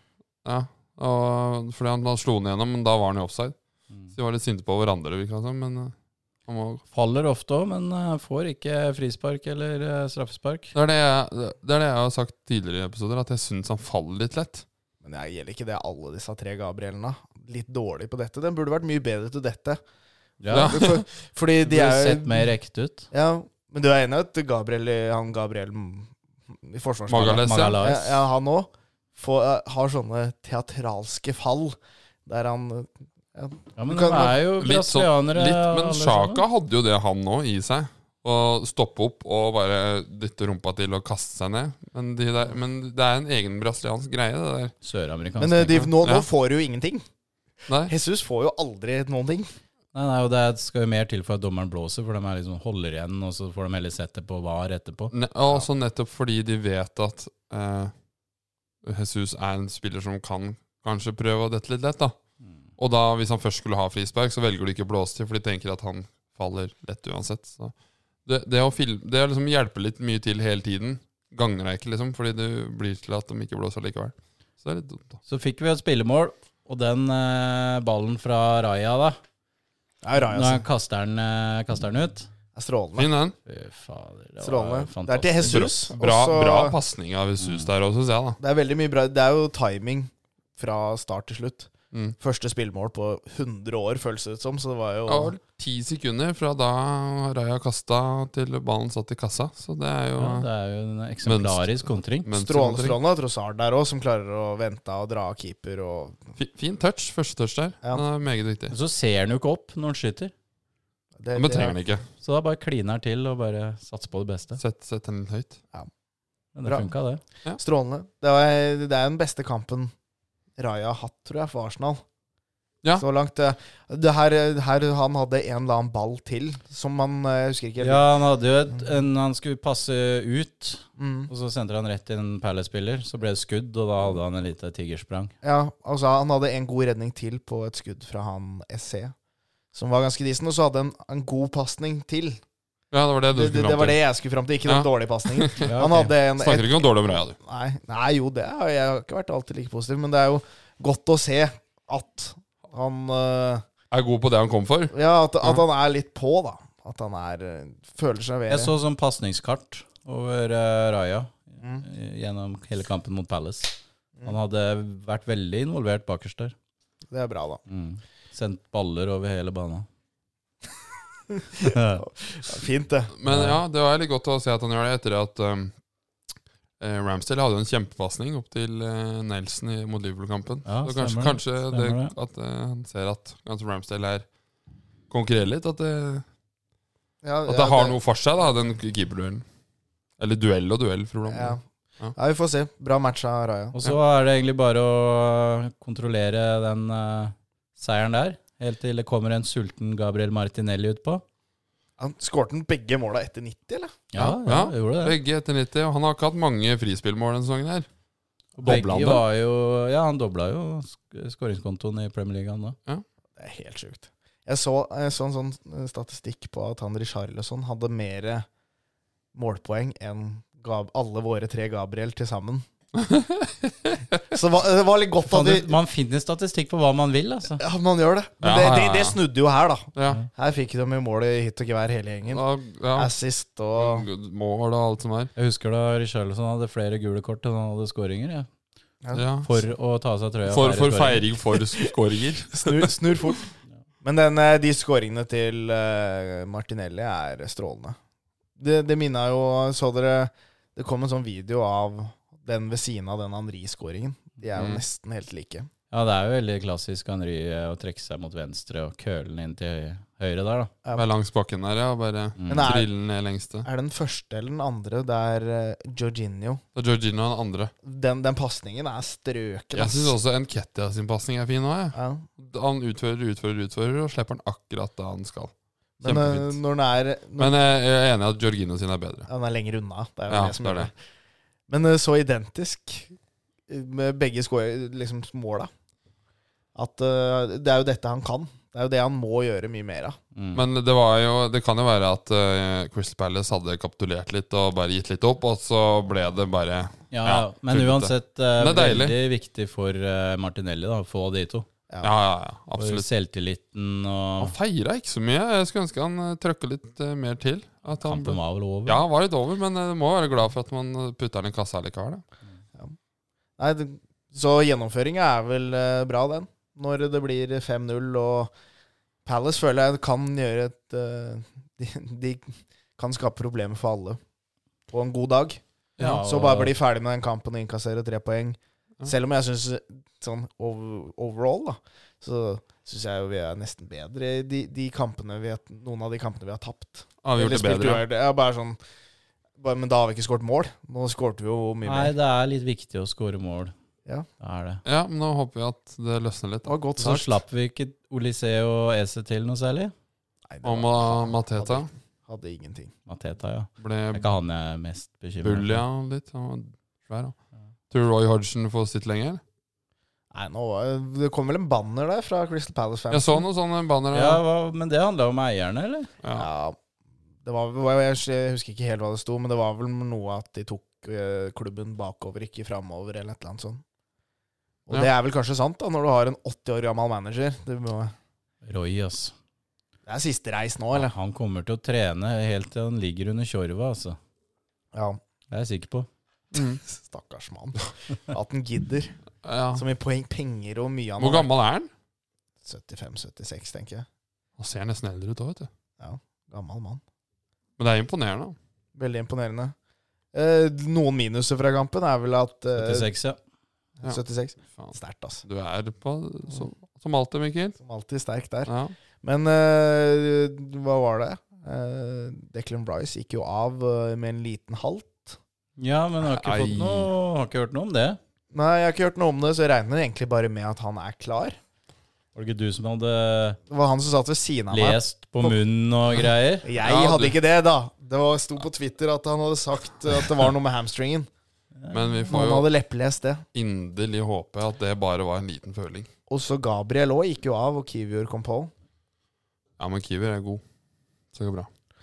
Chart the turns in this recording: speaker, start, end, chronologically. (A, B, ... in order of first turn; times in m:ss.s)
0:00.4-0:03.6 A
0:04.1-0:05.9 A
0:06.5-0:06.8 A
0:06.9-0:10.7 B
0:10.7-0:14.6 A
0:15.0-0:19.8 C
0:20.4-0:20.8 B
0:20.5-0:22.5 C
0:20.5-0:21.0 A
0:21.6-0:23.1 B
0:23.1-0:34.4 C
0:27.1-0:27.8 A
0:27.2-0:28.2 B
0:33.8-0:36.4 B
0:34.6-0:44.7 A
0:44.8-0:45.9 B
0:45.4-0:47.0 C
0:45.8-0:46.3 A
0:47.7-0:47.9 A
0:47.9-0:49.5 C
0:49.9-0:55.1 B
0:55.1-0:57.9 A
0:58.8-1:02.1 A
1:02.8-1:07.7 A
1:08.3-1:15.2 A
1:15.3-1:19.2 B
1:20.0-1:20.6 C
1:20.2-1:22.3 B
1:22.6-1:23.1 C
1:23.0-1:23.4 A
1:23.5-1:25.6 B
1:24.4-1:26.8 C
1:25.5-1:28.4 A
1:27.4-1:27.7 B
1:28.4-1:35.4 C
1:35.1-1:40.5 A
1:40.2-1:42.3 B
1:41.2-1:43.0 A
1:42.4-1:46.2 C
1:46.4-1:48.7 A
1:48.7-1:50.3 B
1:51.2-1:51.8 C
1:51.4-1:52.1 A
1:52.2-1:54.6 B
1:54.6-1:55.6 A
1:56.6-1:57.2 B
1:56.6-1:56.9 C
1:57.6-1:59.9 C
2:00.6-2:02.0 C
2:03.0-2:08.0 C
2:07.8-2:15.3 B
2:11.0-2:11.3 C
2:15.4-2:19.1 C
2:19.7-2:22.4 C
2:22.9-2:24.0 A
2:23.3-2:33.6 C
2:24.6-2:25.7 A
2:25.6-2:26.1 B
2:26.4-2:27.4 A
2:33.9-2:35.6 A
2:34.9-2:38.7 C
2:38.5-2:46.6 B
2:41.6-2:41.8 C
2:47.1-2:47.6 C
2:47.7-2:49.9 B
2:51.3-2:53.1 C
2:51.6-2:52.0 B
2:53.2-2:55.7 A
2:53.3-2:53.6 B
2:56.8-3:04.2 A
3:00.7-3:02.1 B
3:05.1-3:06.2 A
3:07.2-3:08.0 C
3:07.5-3:09.4 A
3:10.2-3:12.1 A
3:11.3-3:11.6 C
3:12.2-3:13.8 C
3:13.7-3:21.2 B
3:22.0-3:24.0 C
3:24.1-3:25.2 B
3:24.2-3:27.9 A
3:28.6-3:32.8 B
3:28.6-3:29.2 A
3:33.4-3:38.5 C
3:39.3-3:42.7 C
3:43.0-3:44.2 A
3:44.3-3:45.8 C
3:45.3-3:47.6 B
3:47.6-3:52.4 C
3:48.4-3:49.2 A
3:50.0-3:50.2 A
3:52.3-3:53.1 A
3:53.0-3:54.1 C
3:53.8-3:55.3 A
3:55.4-3:58.5 B
3:59.1-3:59.5 A
3:59.4-4:01.3 B
4:00.5-4:02.9 A
4:02.5-4:03.5 C
4:04.0-4:08.0 C
4:08.6-4:15.7 C
4:14.6-4:14.8 A
4:15.9-4:20.7 B
4:21.0-4:23.7 A
4:22.4-4:22.7 B
4:22.5-4:22.9 C
4:23.6-4:26.6 C
4:26.8-4:27.7 A
4:27.8-4:30.2 C
4:29.8-4:36.6 A
4:31.9-4:32.3 C
4:36.0-4:37.5 C
4:37.4-4:39.3 A
4:39.3-4:40.9 C
4:40.3-4:40.9 A
4:41.7-4:43.2 C
4:43.7-4:45.7 C
4:46.8-4:50.2 C
4:50.4-4:50.6 B
4:50.6-4:59.2 A
4:57.1-5:01.7 B
5:02.0-5:03.1 A
5:02.8-5:04.5 B
5:04.4-5:12.2 A
5:08.0-5:09.0 B
5:13.6-5:18.5 C
5:19.2-5:24.2 C
5:24.9-5:38.8 C
5:26.0-5:26.7 B
5:37.2-5:38.0 A
5:39.6-5:42.1 C
5:41.8-5:43.7 B
5:44.4-5:44.8 B
5:44.8-5:46.7 A
5:46.7-5:47.4 C
5:47.0-5:49.9 B
5:50.5-5:52.9 C
5:50.6-5:51.9 A
5:53.1-5:55.8 B
5:53.8-5:54.3 A
5:55.4-5:57.4 A
5:57.9-5:59.4 A
6:00.3-6:03.4 C
6:03.1-6:04.4 A
6:04.1-6:06.1 B
6:06.2-6:06.5 A
6:06.4-6:06.8 C
6:07.4-6:13.8 C
6:14.9-6:18.1 C
6:18.6-6:19.3 B
6:20.1-6:21.1 C
6:20.9-6:24.2 B
6:24.9-6:25.2 C
6:25.5-6:26.1 B
6:26.5-6:26.8 A
6:26.8-6:29.2 C
6:29.4-6:29.8 A
6:29.7-6:31.5 C
6:31.2-6:31.9 A
6:32.6-6:34.1 C
6:34.6-6:35.7 A
6:36.0-6:37.0 C
6:37.8-6:38.6 A
6:39.0-6:39.8 C
6:40.3-6:43.1 C
6:42.8-6:43.4 B
6:44.0-6:45.4 C
6:44.7-6:47.8 A
6:47.8-6:55.4 C
6:48.7-6:49.0 A
6:55.8-6:58.2 B
6:56.2-6:57.1 A
6:58.5-7:01.6 C
7:02.4-7:03.6 B
7:03.7-7:05.6 C
7:04.7-7:06.7 B
7:06.6-7:11.3 C
7:06.8-7:07.4 A
7:11.8-7:12.2 B
7:11.9-7:12.7 A
7:12.3-7:13.4 C
7:13.6-7:16.1 A
7:16.3-7:18.7 C
7:19.8-7:20.6 A
7:21.3-7:21.7 A